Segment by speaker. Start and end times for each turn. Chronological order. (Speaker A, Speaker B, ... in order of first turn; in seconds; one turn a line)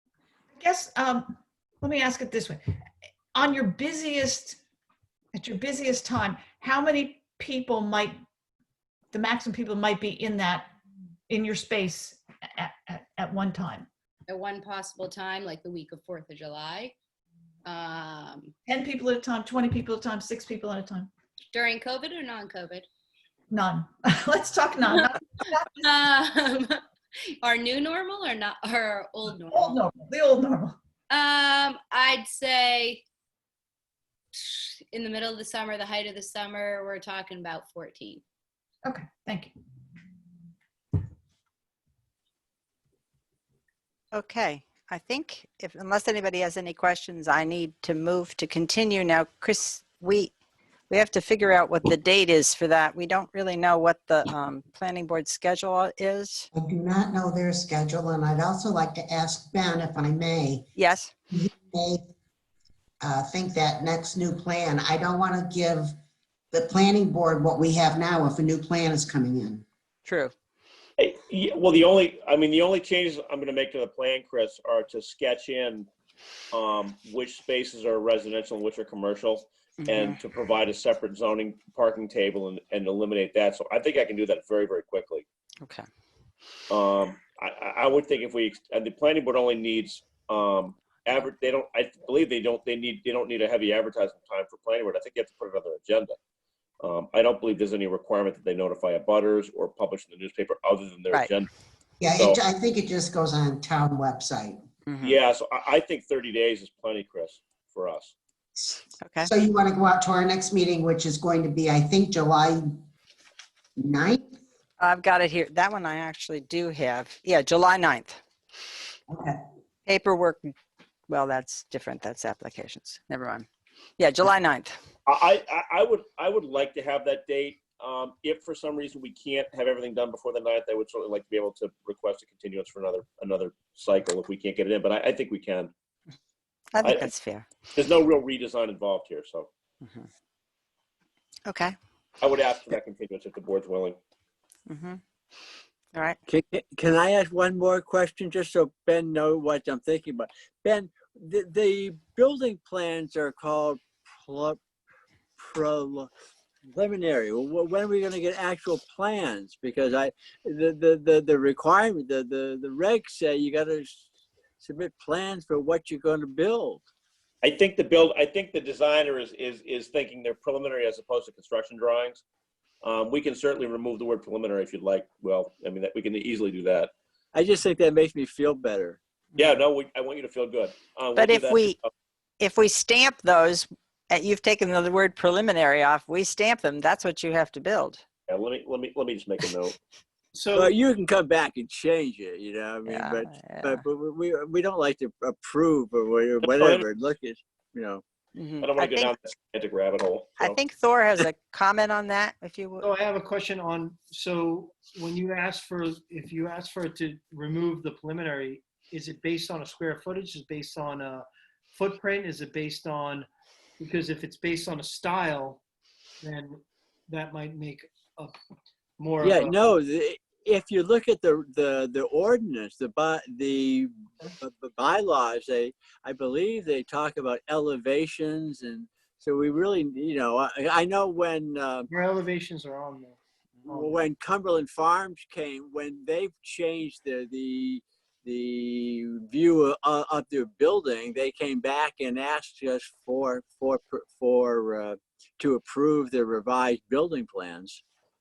Speaker A: 0.6-2.6
Speaker A: 3.3-4.6
Speaker A: 5.3-8.2
Speaker A: 9.1-10.7
Speaker A: 11.3-13.9
Speaker B: 14.3-16.9
Speaker B: 17.6-18.6
Speaker A: 18.7-21.1
Speaker B: 21.5-22.9
Speaker A: 23.5-25.8
Speaker B: 25.8-26.8
Speaker B: 27.4-29.8
Speaker A: 29.5-30.8
Speaker B: 31.1-33.0
Speaker B: 34.3-38.2
Speaker A: 38.8-39.5
Speaker C: 44.1-50.3
Speaker C: 50.9-56.5
Speaker D: 56.5-60.6
Speaker C: 60.8-61.1
Speaker D: 61.3-62.0
Speaker D: 63.0-66.0
Speaker D: 66.5-69.6
Speaker C: 70.0-70.3
Speaker E: 71.0-75.9
Speaker E: 76.5-85.2
Speaker C: 79.8-80.2
Speaker E: 86.7-96.2
Speaker E: 96.8-101.5
Speaker D: 102.0-104.6
Speaker C: 104.9-105.2
Speaker E: 105.0-108.1
Speaker D: 108.6-112.7
Speaker C: 109.0-109.3
Speaker D: 113.8-114.4
Speaker C: 114.8-118.2
Speaker D: 119.1-119.4
Speaker C: 119.9-120.5
Speaker C: 121.1-123.5
Speaker C: 124.0-124.7
Speaker E: 125.0-135.7
Speaker C: 136.7-137.5
Speaker E: 136.8-137.1
Speaker E: 137.7-139.5
Speaker C: 141.5-141.8
Speaker E: 142.2-144.0
Speaker C: 144.7-145.0
Speaker C: 145.9-146.2
Speaker F: 146.3-154.6
Speaker F: 155.4-156.1
Speaker F: 156.7-164.1
Speaker F: 164.6-166.9
Speaker E: 167.4-172.2
Speaker E: 172.8-176.9
Speaker F: 177.3-179.0
Speaker E: 179.3-181.9
Speaker C: 181.2-181.8
Speaker C: 182.4-188.0
Speaker E: 188.3-189.8
Speaker G: 190.3-190.8
Speaker F: 190.6-198.0
Speaker C: 192.9-193.8
Speaker E: 196.4-196.9
Speaker C: 198.3-199.1
Speaker E: 198.6-200.6
Speaker C: 200.4-202.9
Speaker G: 202.8-213.3
Speaker G: 213.8-215.6
Speaker G: 216.2-218.4
Speaker G: 219.0-219.7
Speaker F: 219.2-231.9
Speaker G: 231.9-234.0
Speaker F: 233.7-247.8